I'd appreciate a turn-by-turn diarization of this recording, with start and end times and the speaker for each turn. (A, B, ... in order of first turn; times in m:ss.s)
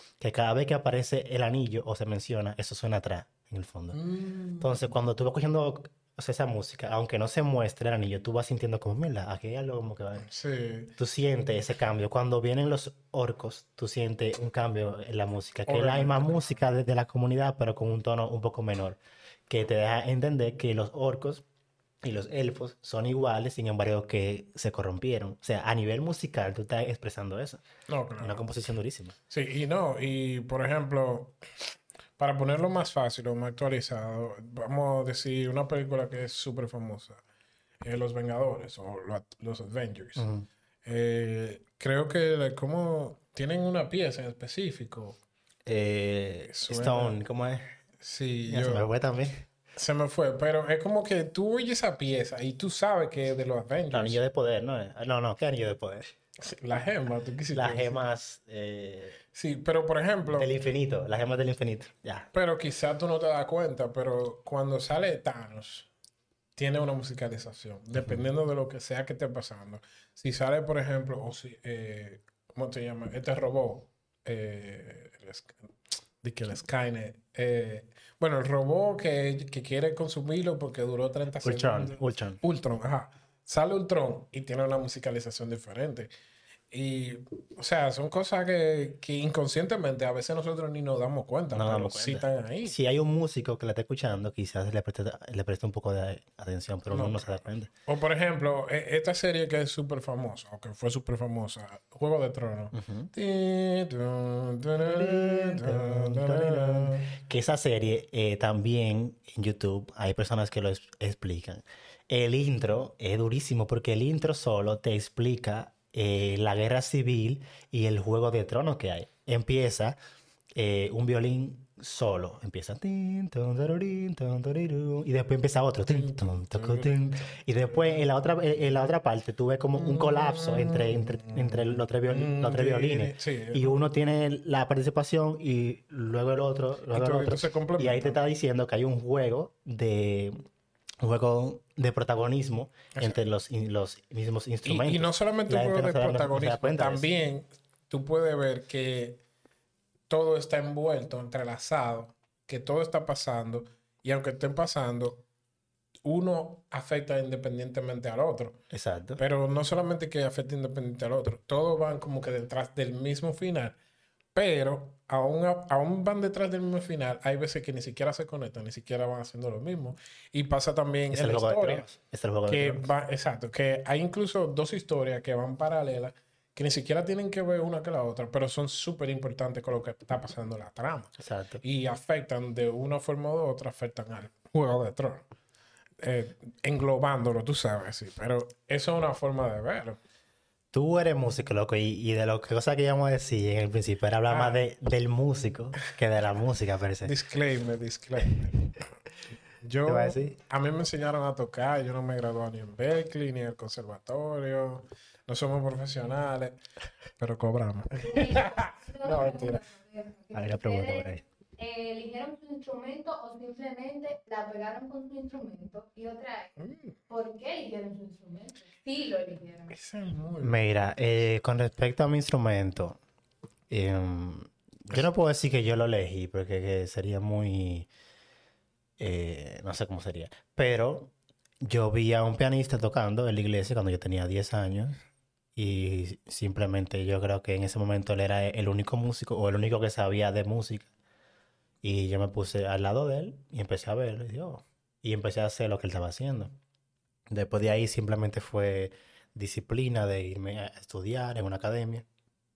0:00.2-0:04.0 A
0:03.9-0:04.8 B
0:04.6-0:10.3 A
0:10.3-0:10.9 B
0:11.0-0:21.4 A
0:15.7-0:16.6 B
0:22.0-0:27.6 A
0:27.9-0:28.4 B
0:28.2-0:29.2 A
0:29.3-0:31.4 B
0:32.2-0:37.2 B
0:37.8-0:40.3 B
0:40.2-0:40.5 A
0:40.8-0:45.2 B
0:45.7-0:47.7 A
0:46.5-0:47.2 B
0:48.0-0:48.9 B
0:48.5-0:49.5 A
0:49.8-0:54.2 B
0:53.9-0:56.1 A
0:56.4-0:58.0 B
0:57.5-0:59.2 A
0:59.3-1:00.5 B
1:00.3-1:02.3 A
1:02.3-1:05.9 B
1:06.6-1:26.1 B
1:08.0-1:08.2 A
1:21.4-1:22.4 A
1:26.7-1:32.8 B
1:31.5-1:37.7 A
1:36.9-1:47.2 B
1:42.7-1:43.1 A
1:44.8-2:00.0 A
2:00.6-2:20.4 A
2:05.9-2:08.1 B
2:09.8-2:13.8 B
2:16.9-2:18.2 B
2:21.0-2:27.1 A
2:23.0-2:23.2 B
2:24.6-2:29.2 B
2:30.1-2:35.2 B
2:36.0-2:38.6 B
2:38.7-2:39.2 A
2:39.2-2:43.8 B
2:44.4-2:51.9 B
2:51.1-2:52.9 A
2:52.5-3:05.3 B
3:01.2-3:01.6 A
3:06.0-3:10.0 B
3:10.7-3:17.1 A
3:14.3-3:14.6 B
3:17.0-3:18.7 B
3:19.6-3:26.6 B
3:19.8-3:20.4 A
3:27.2-3:29.6 B
3:28.0-3:39.8 C
3:30.3-3:31.2 A
3:36.6-3:37.0 B
3:39.7-3:40.6 B
3:40.4-3:43.0 A
3:43.7-3:47.9 A
3:49.0-3:55.0 A
3:55.6-4:00.9 A
4:01.8-4:06.5 A
4:07.3-4:12.0 A